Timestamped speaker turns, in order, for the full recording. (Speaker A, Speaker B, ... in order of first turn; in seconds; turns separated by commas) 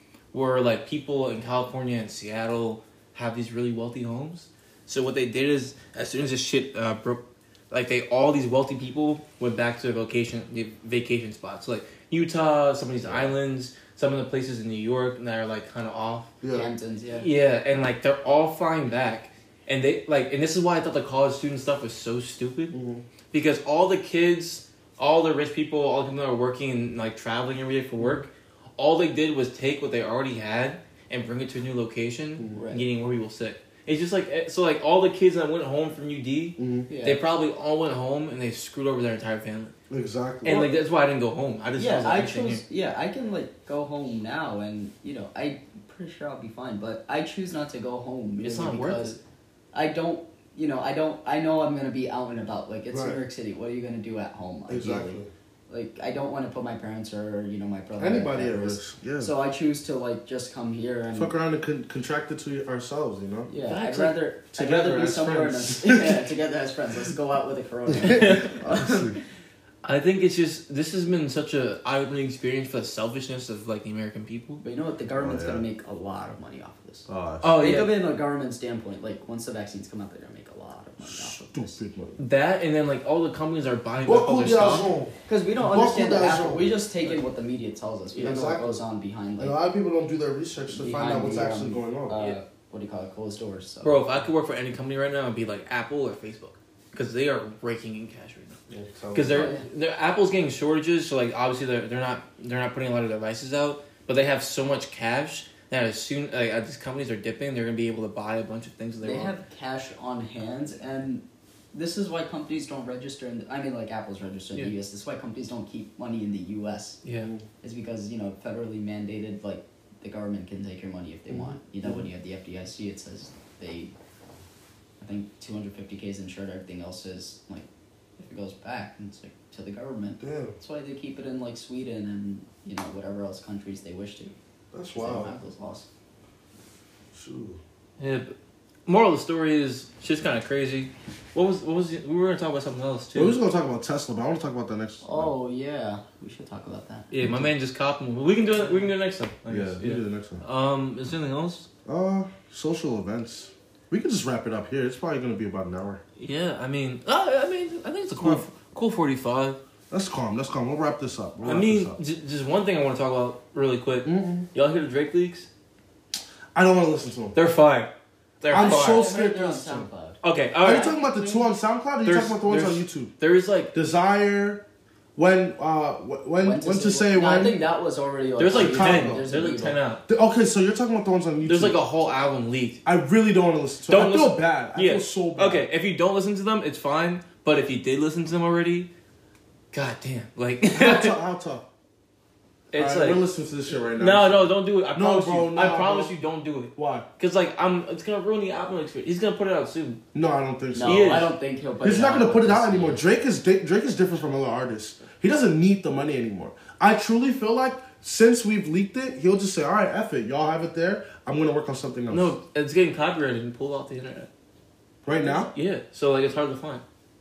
Speaker A: 0.3-16.3, Speaker B: 13.1-13.3, Speaker B: 16.4-16.7, Speaker C: 16.5-17.3, Speaker A: 17.2-22.7, Speaker B: 22.7-23.0, Speaker A: 23.3-39.7, Speaker C: 32.5-32.9, Speaker B: 36.6-36.9, Speaker C: 36.9-37.2, Speaker B: 39.9-40.7, Speaker A: 40.4-42.6, Speaker C: 41.8-49.2, Speaker A: 48.4-49.2, Speaker C: 49.7-61.3, Speaker B: 52.9-53.2, Speaker B: 54.7-55.3, Speaker B: 58.0-59.3, Speaker B: 61.1-63.5, Speaker C: 63.5-69.2, Speaker A: 63.6-64.1, Speaker B: 64.5-66.3, Speaker A: 68.0-68.6, Speaker B: 68.0-69.2, Speaker A: 69.8-74.6, Speaker C: 74.6-81.8, Speaker B: 75.2-75.6, Speaker B: 77.1-77.6, Speaker A: 77.4-78.0, Speaker B: 81.0-82.2, Speaker A: 82.2-84.9, Speaker B: 84.0-86.8, Speaker C: 85.2-89.6, Speaker B: 88.2-88.7, Speaker B: 89.4-92.2, Speaker C: 90.7-94.2, Speaker A: 93.8-98.6, Speaker B: 98.7-99.5, Speaker A: 99.1-109.3, Speaker C: 99.3-99.6, Speaker C: 109.0-117.0, Speaker A: 117.0-117.3, Speaker C: 117.6-123.9, Speaker B: 121.3-122.0, Speaker C: 125.0-127.7, Speaker C: 128.2-134.3, Speaker B: 130.2-130.5, Speaker B: 134.7-135.3, Speaker C: 134.9-135.9, Speaker B: 137.1-137.6, Speaker A: 138.0-138.3, Speaker A: 138.9-143.4, Speaker B: 143.1-145.3, Speaker C: 145.0-147.1, Speaker A: 147.1-151.7, Speaker B: 149.5-150.4, Speaker B: 151.8-156.0, Speaker A: 156.2-159.6, Speaker B: 158.2-158.4, Speaker B: 159.9-162.0, Speaker A: 161.4-165.5, Speaker B: 164.0-164.5, Speaker B: 166.5-167.4, Speaker A: 167.3-167.9, Speaker A: 168.4-169.1, Speaker B: 168.5-169.8, Speaker C: 168.5-171.5, Speaker A: 170.2-170.9, Speaker B: 170.6-173.1, Speaker A: 172.0-173.7, Speaker B: 173.7-174.6, Speaker B: 175.2-177.6, Speaker C: 176.4-179.8, Speaker A: 178.4-180.0, Speaker B: 178.5-179.3, Speaker B: 180.1-181.8, Speaker A: 181.4-182.8, Speaker B: 182.8-185.6, Speaker A: 183.9-188.9, Speaker A: 189.7-191.1, Speaker B: 190.7-191.6, Speaker A: 192.7-193.2, Speaker B: 192.8-196.1, Speaker A: 193.9-200.0, Speaker B: 196.7-197.1, Speaker B: 200.1-201.3, Speaker C: 200.7-203.0, Speaker A: 200.8-201.3, Speaker B: 201.8-212.3, Speaker A: 212.1-214.3, Speaker C: 215.1-215.3, Speaker B: 215.1-215.5, Speaker A: 215.3-216.8